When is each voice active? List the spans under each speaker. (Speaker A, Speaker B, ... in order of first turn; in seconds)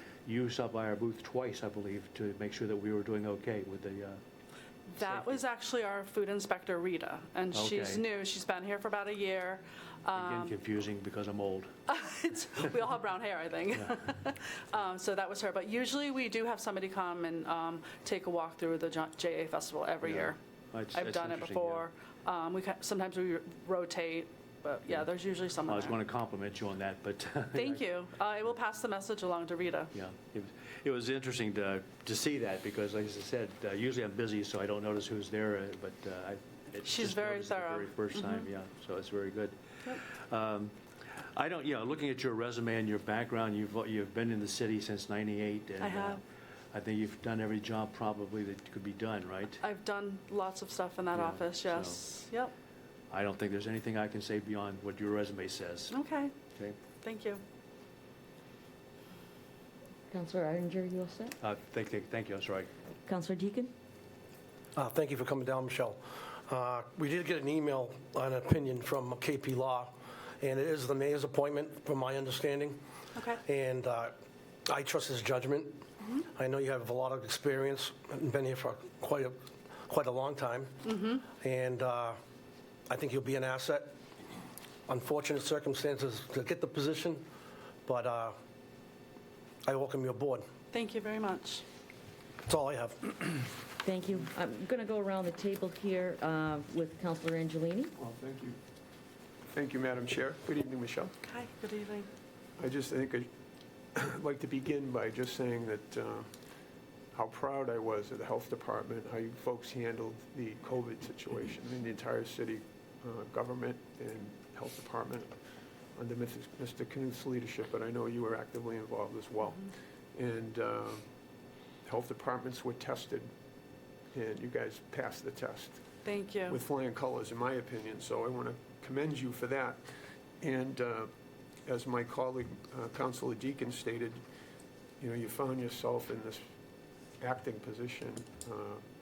Speaker A: 0.2-4.2, 5.0-5.4, 7.5-8.0, 10.2-11.7, 20.0-21.9, 25.7-27.8, 29.9-46.2, 46.7-49.6, 51.1-52.0, 53.1-56.0, 61.4-62.7
Speaker B: 4.9-10.6, 11.9-20.4, 20.9-26.0, 27.5-29.9, 36.8-38.4, 45.8-46.2, 49.6-52.5, 55.9-56.3, 57.0-57.4, 73.2-73.4, 80.9-81.2, 90.7-91.6, 101.2-102.1, 126.0-126.6
Speaker C: 60.1-61.4, 63.1-63.7, 93.8-97.9
Speaker D: 64.8-72.8, 73.4-74.2, 74.7-82.2, 82.9-83.9, 84.9-87.2, 87.9-88.4, 89.7-90.5, 92.5-93.4
Speaker E: 98.0-98.6, 99.5-101.2, 102.6-103.3, 103.9-106.3, 107.1-115.4, 116.0-121.0, 121.8-123.3, 124.1-125.8, 126.5-129.8, 130.4-131.1, 131.7-134.2, 135.0-136.4, 137.2-138.8